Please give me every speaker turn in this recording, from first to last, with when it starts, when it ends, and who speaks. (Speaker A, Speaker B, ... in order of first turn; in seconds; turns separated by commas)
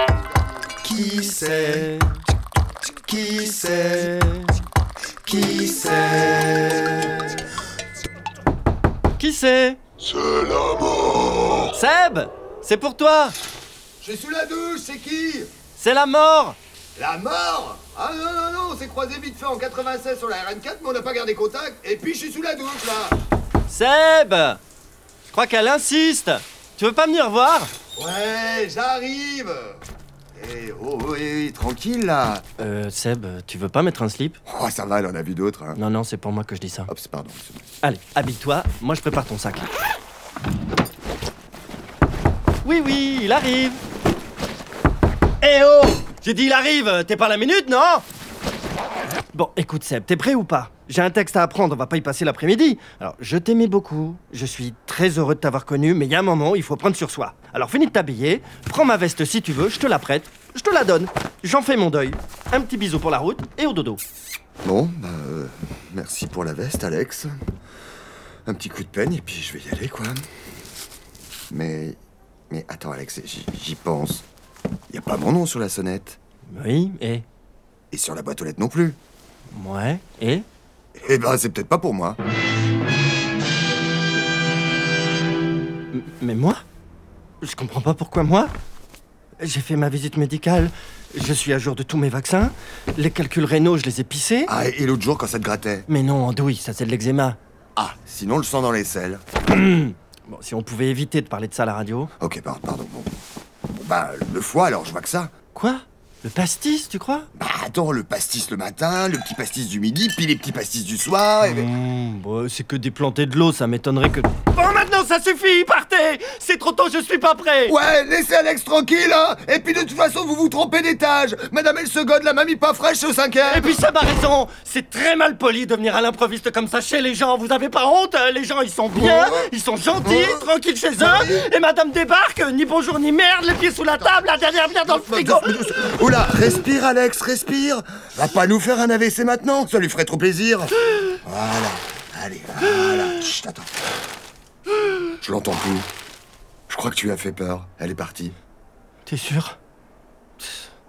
Speaker A: 0.8-2.2, Speaker A: 3.0-4.6, Speaker A: 5.3-7.4, Speaker A: 9.2-9.8, Speaker B: 10.1-11.2, Speaker A: 11.7-13.4, Speaker B: 14.0-15.5, Speaker A: 15.8-16.6, Speaker B: 17.0-23.1, Speaker A: 23.7-24.6, Speaker A: 25.3-27.7, Speaker B: 28.0-29.8, Speaker B: 30.4-32.4, Speaker A: 32.6-34.4, Speaker B: 34.5-35.8, Speaker A: 35.8-36.9, Speaker B: 36.9-37.7, Speaker A: 37.8-39.7, Speaker A: 42.6-43.8, Speaker A: 45.4-48.0, Speaker A: 49.3-64.0, Speaker B: 64.6-67.4, Speaker B: 68.5-70.2, Speaker B: 71.5-72.0, Speaker B: 72.5-74.2, Speaker B: 74.9-76.2, Speaker A: 76.5-77.3, Speaker B: 77.9-79.0, Speaker A: 79.5-80.5, Speaker B: 81.0-82.2, Speaker A: 85.9-86.6, Speaker A: 87.4-88.5, Speaker A: 89.4-94.5, Speaker B: 94.5-95.9, Speaker A: 95.9-97.4, Speaker B: 97.8-99.2, Speaker A: 99.5-102.1, Speaker B: 102.2-103.1, Speaker B: 103.7-105.3, Speaker A: 105.5-107.3, Speaker B: 107.4-111.7, Speaker A: 111.4-117.8, Speaker B: 117.7-123.8, Speaker A: 123.5-135.6, Speaker B: 129.0-129.5, Speaker B: 130.1-130.4, Speaker B: 131.0-131.4, Speaker B: 134.9-143.7, Speaker B: 145.2-145.9, Speaker B: 146.7-148.3, Speaker A: 149.1-149.6